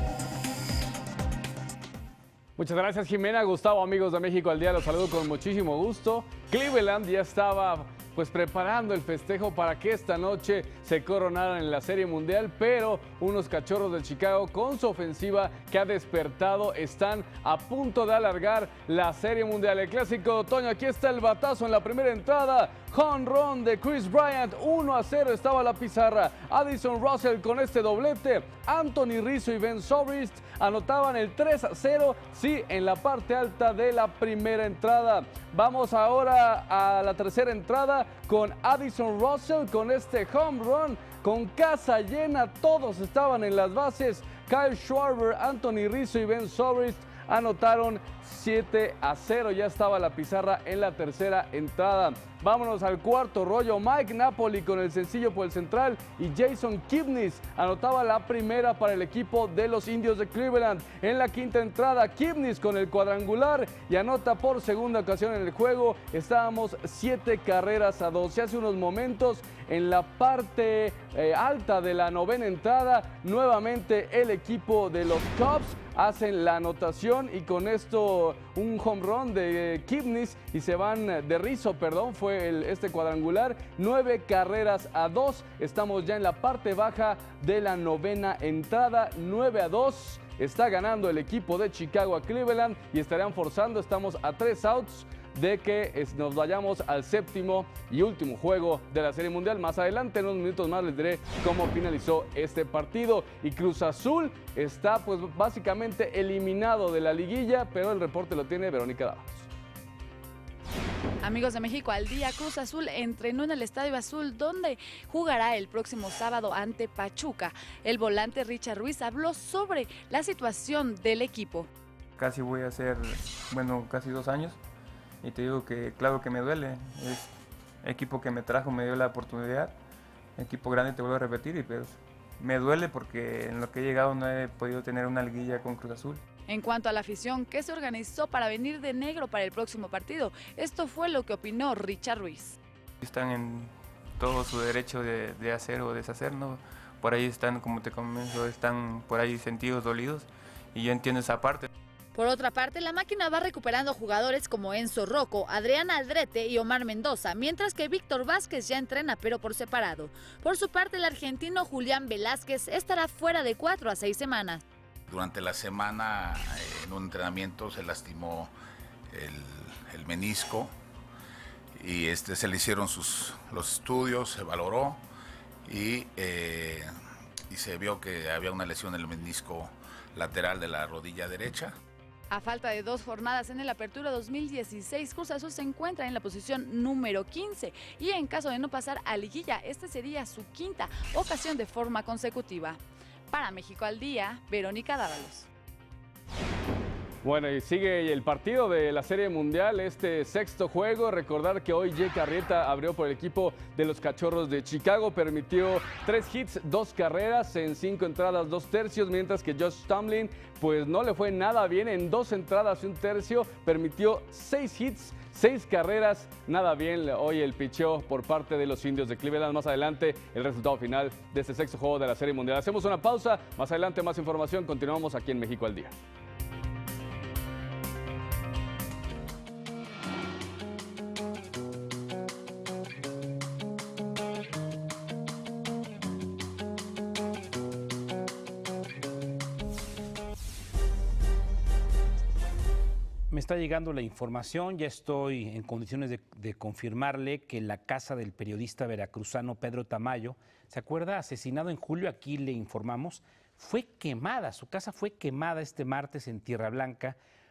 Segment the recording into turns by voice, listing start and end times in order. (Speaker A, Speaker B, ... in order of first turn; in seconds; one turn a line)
Speaker A: 2.6-109.5
Speaker B: 111.2-121.7
Speaker C: 122.2-124.6
Speaker C: 125.2-127.3
Speaker C: 127.8-129.7
Speaker C: 130.4-136.2
Speaker B: 136.5-142.6
Speaker C: 143.0-151.7
Speaker B: 152.1-164.6
Speaker D: 165.1-168.5
Speaker D: 169.1-170.7
Speaker D: 171.8-175.0
Speaker D: 175.6-176.9
Speaker D: 177.5-181.7
Speaker B: 182.3-195.5
Speaker A: 197.2-225.9
Speaker E: 243.3-257.1